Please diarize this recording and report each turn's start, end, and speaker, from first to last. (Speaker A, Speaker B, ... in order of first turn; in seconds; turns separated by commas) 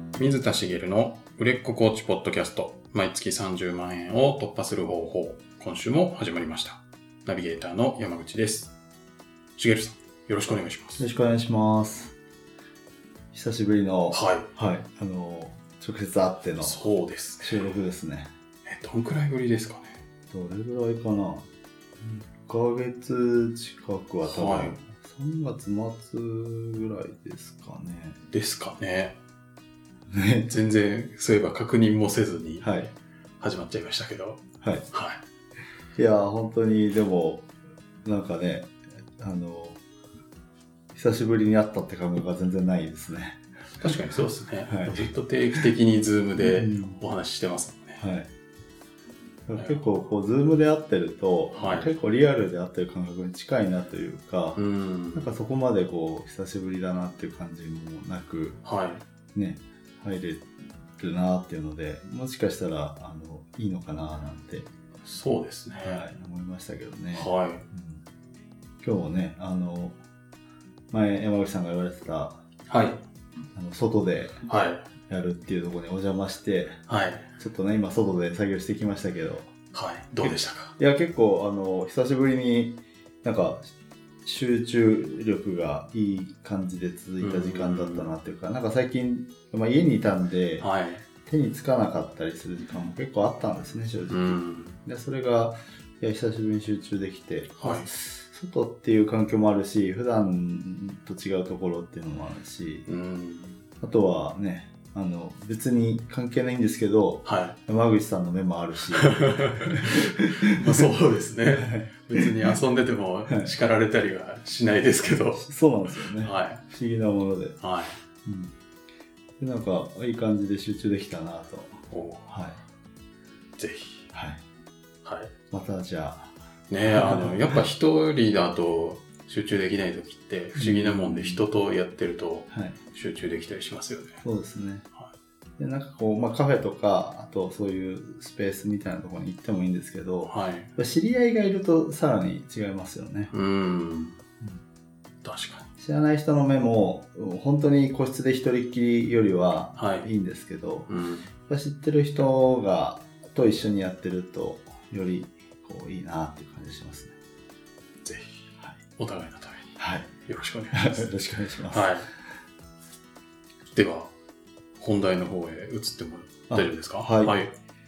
Speaker A: 0.2-8.7, Speaker A: 9.6-11.1, Speaker B: 11.0-12.1, Speaker B: 13.3-16.8, Speaker A: 14.1-14.5, Speaker A: 16.6-17.7, Speaker B: 17.4-18.3, Speaker A: 18.6-20.0, Speaker B: 20.3-21.5, Speaker B: 22.0-28.2, Speaker A: 24.2-24.8, Speaker A: 28.3-29.2, Speaker B: 30.1-30.5, Speaker A: 30.5-32.7, Speaker B: 32.6-32.9, Speaker A: 33.4-35.2, Speaker B: 35.9-37.5, Speaker B: 38.0-39.8, Speaker B: 40.9-44.0, Speaker A: 43.8-48.0, Speaker B: 44.6-45.1, Speaker B: 46.4-47.0, Speaker B: 48.0-48.3, Speaker B: 49.5-54.6, Speaker A: 49.6-49.9, Speaker A: 51.5-51.9, Speaker A: 54.5-55.4, Speaker B: 55.1-58.6, Speaker A: 58.6-59.0, Speaker B: 59.3-64.7, Speaker A: 65.0-66.0, Speaker B: 65.8-68.0, Speaker A: 67.1-67.7, Speaker B: 68.8-70.0, Speaker B: 70.9-72.4, Speaker A: 72.7-73.0, Speaker B: 73.5-74.4, Speaker A: 74.5-74.8, Speaker B: 75.1-76.8, Speaker A: 76.9-77.3, Speaker B: 77.4-79.5, Speaker A: 79.7-80.7, Speaker B: 80.2-83.7, Speaker B: 84.2-90.7, Speaker A: 87.2-88.1, Speaker A: 90.6-91.0, Speaker B: 91.2-102.9, Speaker A: 94.1-94.8, Speaker A: 97.6-97.9, Speaker A: 102.9-103.6, Speaker B: 103.8-110.4, Speaker A: 107.2-107.6, Speaker A: 109.0-115.4, Speaker B: 111.5-112.3, Speaker B: 115.4-117.6, Speaker A: 116.0-116.6, Speaker A: 117.6-118.0, Speaker B: 118.2-118.5, Speaker B: 119.4-122.6, Speaker A: 121.9-122.3, Speaker A: 123.6-124.1, Speaker B: 124.1-124.4, Speaker A: 125.0-125.3, Speaker B: 125.5-126.3, Speaker A: 126.7-134.2, Speaker B: 126.8-127.6, Speaker B: 130.5-131.4, Speaker B: 132.5-132.8, Speaker B: 134.2-134.9, Speaker B: 135.6-143.3, Speaker A: 140.2-140.7, Speaker A: 143.3-144.2, Speaker A: 145.2-145.7, Speaker B: 145.8-150.9, Speaker A: 149.8-150.1, Speaker A: 150.9-151.3, Speaker B: 151.5-157.1, Speaker A: 158.0-161.1, Speaker B: 159.8-160.1, Speaker B: 160.7-162.0, Speaker A: 161.7-162.1, Speaker A: 163.7-164.1, Speaker A: 164.8-167.5, Speaker B: 166.5-167.4